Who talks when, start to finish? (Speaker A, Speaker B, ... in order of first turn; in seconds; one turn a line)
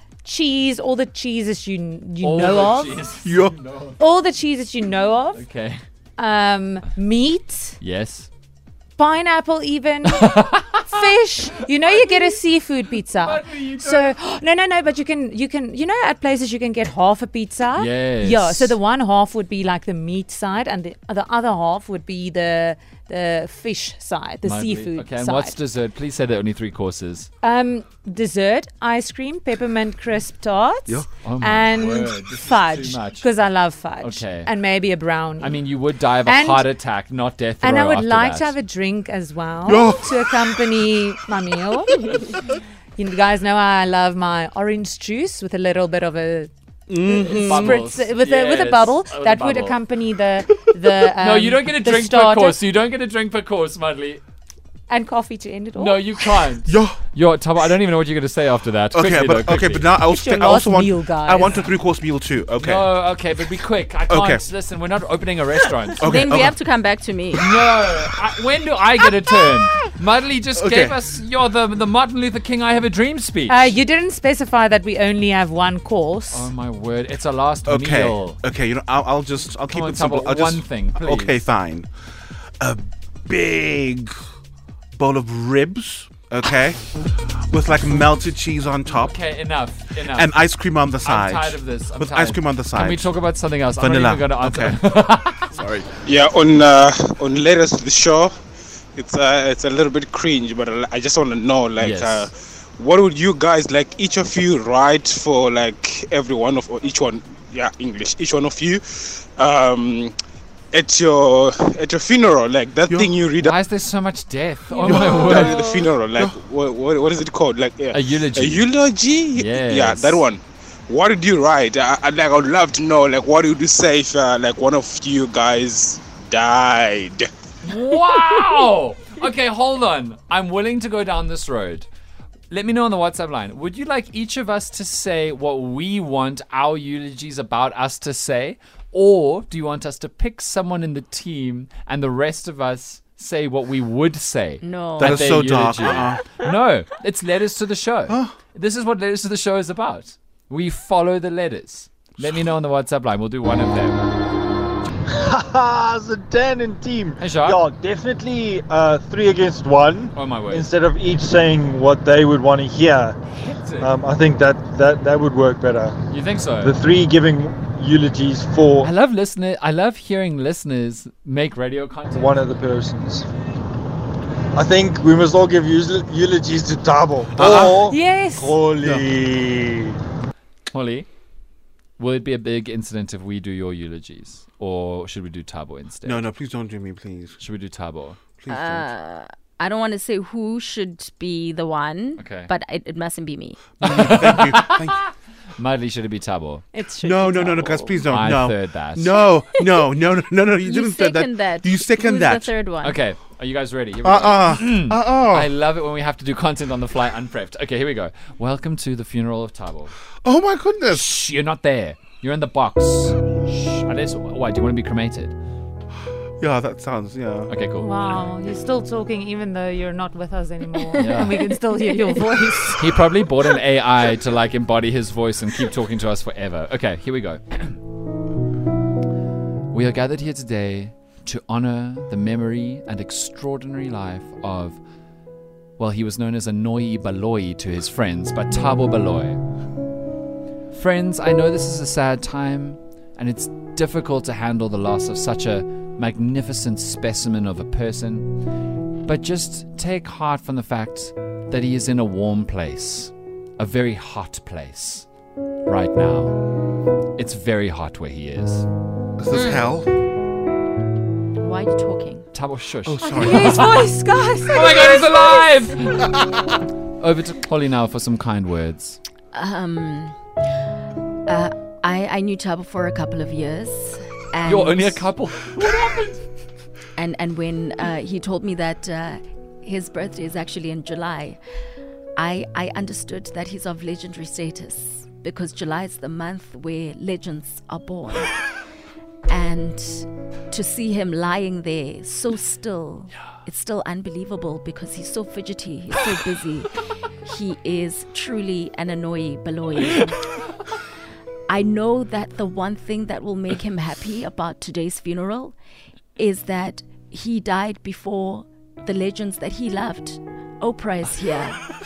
Speaker A: 0.2-3.0
Speaker B: 2.2-4.0
Speaker C: 3.2-3.5
Speaker A: 4.0-5.4
Speaker B: 5.3-5.8
Speaker A: 6.2-7.8
Speaker B: 7.8-8.3
Speaker A: 9.0-25.6
Speaker B: 10.1-10.5
Speaker B: 13.2-14.2
Speaker B: 17.8-18.8
Speaker B: 24.4-27.3
Speaker A: 27.4-35.6
Speaker B: 31.2-33.3
Speaker B: 34.0-34.5
Speaker B: 35.4-38.5
Speaker A: 36.2-36.7
Speaker A: 37.6-42.4
Speaker C: 39.7-40.2
Speaker A: 43.0-46.5
Speaker C: 46.9-47.9
Speaker A: 47.0-52.6
Speaker B: 47.4-49.8
Speaker B: 51.1-54.2
Speaker A: 54.9-56.0
Speaker B: 55.7-60.0
Speaker C: 56.6-57.0
Speaker C: 58.9-62.9
Speaker A: 60.0-61.6
Speaker B: 62.6-66.4
Speaker C: 64.1-64.5
Speaker C: 66.0-66.5
Speaker D: 66.0-67.5
Speaker B: 67.3-73.8
Speaker C: 70.6-71.0
Speaker A: 73.5-76.5
Speaker B: 76.3-78.4
Speaker C: 77.7-81.9
Speaker B: 79.7-81.5
Speaker C: 82.6-84.1
Speaker C: 85.0-86.8
Speaker C: 87.5-89.2
Speaker B: 88.9-90.4
Speaker C: 90.1-93.2
Speaker B: 91.0-95.5
Speaker C: 93.8-94.8
Speaker C: 95.5-95.9
Speaker E: 96.0-98.4
Speaker E: 99.0-110.2
Speaker B: 101.8-102.3
Speaker E: 110.7-113.6
Speaker C: 112.9-113.2
Speaker B: 113.3-115.6
Speaker E: 114.8-127.3
Speaker C: 114.9-115.3
Speaker C: 116.0-116.4
Speaker B: 117.9-118.7
Speaker B: 119.3-120.3
Speaker B: 127.6-131.9
Speaker B: 132.5-154.1
Speaker D: 144.6-145.3
Speaker C: 145.0-146.2
Speaker C: 148.1-148.3
Speaker F: 155.1-163.2
Speaker B: 157.2-157.6
Speaker B: 160.1-160.7
Speaker B: 163.4-163.9
Speaker F: 163.8-165.9
Speaker B: 166.1-166.8
Speaker F: 166.6-168.9
Speaker B: 168.8-172.4
Speaker F: 172.1-173.2
Speaker F: 174.6-180.0
Speaker C: 177.3-177.8
Speaker B: 177.5-177.8
Speaker A: 177.8-178.6
Speaker C: 178.8-179.1
Speaker B: 180.7-181.1
Speaker B: 182.0-186.2
Speaker C: 186.0-187.4
Speaker B: 187.4-188.2
Speaker C: 188.4-188.9
Speaker D: 188.5-193.9
Speaker B: 192.2-192.5
Speaker C: 193.8-195.1
Speaker B: 193.8-194.9
Speaker B: 195.6-196.7
Speaker A: 196.7-198.0
Speaker C: 197.0-202.6
Speaker B: 198.0-199.2
Speaker D: 199.6-199.9
Speaker D: 200.6-203.0
Speaker B: 202.8-209.9
Speaker C: 204.0-205.5
Speaker C: 210.2-211.1
Speaker B: 210.9-215.4
Speaker C: 216.4-217.5
Speaker B: 217.5-218.2
Speaker A: 217.8-222.8
Speaker D: 220.8-222.6
Speaker B: 221.0-221.5
Speaker B: 222.8-227.8
Speaker B: 229.7-234.8
Speaker B: 235.8-239.4
Speaker B: 240.7-248.3
Speaker B: 249.0-255.1
Speaker B: 255.7-256.4
Speaker B: 257.2-258.7
Speaker C: 259.2-259.9
Speaker D: 261.4-262.3
Speaker B: 262.3-263.9
Speaker C: 262.9-263.8
Speaker A: 263.0-265.1
Speaker B: 264.5-266.4
Speaker B: 267.0-269.0
Speaker D: 269.3-270.2
Speaker D: 271.3-275.1
Speaker B: 274.5-276.2
Speaker D: 277.0-281.4
Speaker D: 282.2-288.3
Speaker D: 289.3-296.7
Speaker D: 297.2-300.2
Speaker D: 301.5-305.6
Speaker D: 306.2-311.7